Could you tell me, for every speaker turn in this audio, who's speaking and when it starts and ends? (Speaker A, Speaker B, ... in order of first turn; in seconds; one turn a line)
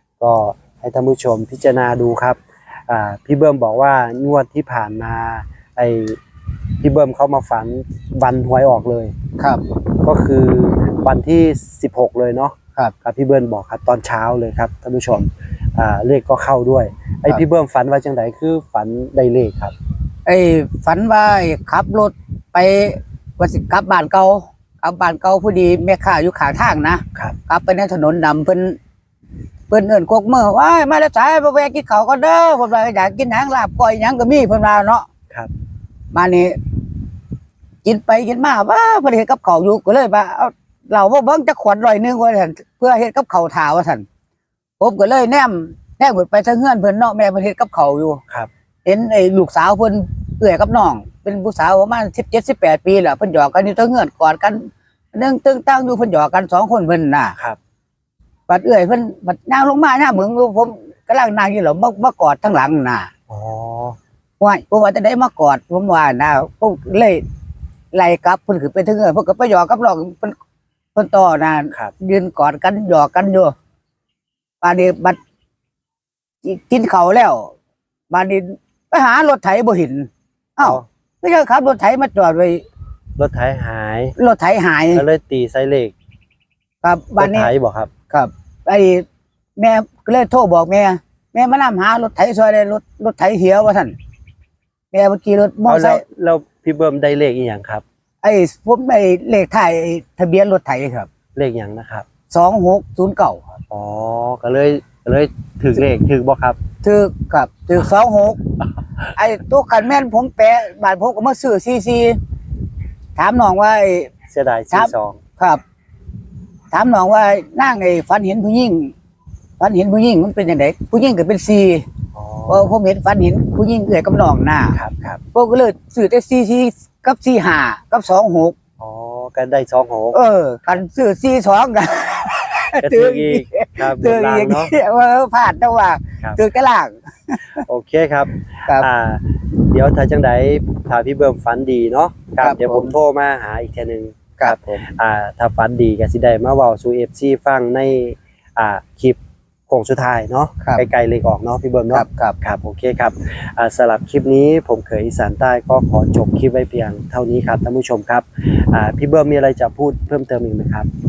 Speaker A: 0.2-6.2
Speaker A: 6.8-9.2
Speaker A: 10.0-19.7
Speaker B: 20.3-28.8
Speaker B: 29.7-35.1
Speaker B: 36.1-36.6
Speaker B: 37.8-44.1
Speaker B: 44.8-48.2
Speaker B: 48.9-57.4
Speaker B: 58.5-63.1
Speaker A: 63.3-64.0
Speaker B: 64.4-67.2
Speaker B: 67.9-70.4
Speaker B: 71.0-73.5
Speaker B: 74.6-75.2
Speaker B: 76.4-77.5
Speaker B: 78.1-82.7
Speaker A: 83.2-84.2
Speaker B: 84.2-85.0
Speaker A: 84.9-85.9
Speaker B: 86.8-87.5
Speaker A: 87.2-87.9
Speaker B: 88.1-89.0
Speaker B: 89.6-94.0
Speaker B: 94.9-96.0
Speaker A: 95.7-97.8
Speaker B: 98.2-101.1
Speaker A: 101.3-102.1
Speaker B: 102.3-103.5
Speaker A: 103.7-106.6
Speaker B: 106.8-108.4
Speaker B: 109.2-112.2
Speaker B: 113.2-114.1
Speaker A: 114.3-115.2
Speaker B: 114.7-115.6
Speaker B: 116.7-118.9
Speaker B: 119.6-121.9
Speaker A: 122.1-122.7
Speaker B: 122.5-124.8
Speaker A: 124.7-125.2
Speaker B: 125.3-128.6
Speaker A: 128.8-130.2
Speaker B: 130.1-137.6
Speaker A: 132.8-134.7
Speaker A: 137.6-149.2
Speaker B: 142.4-142.9
Speaker B: 144.4-144.8
Speaker A: 149.7-160.9
Speaker B: 151.9-152.4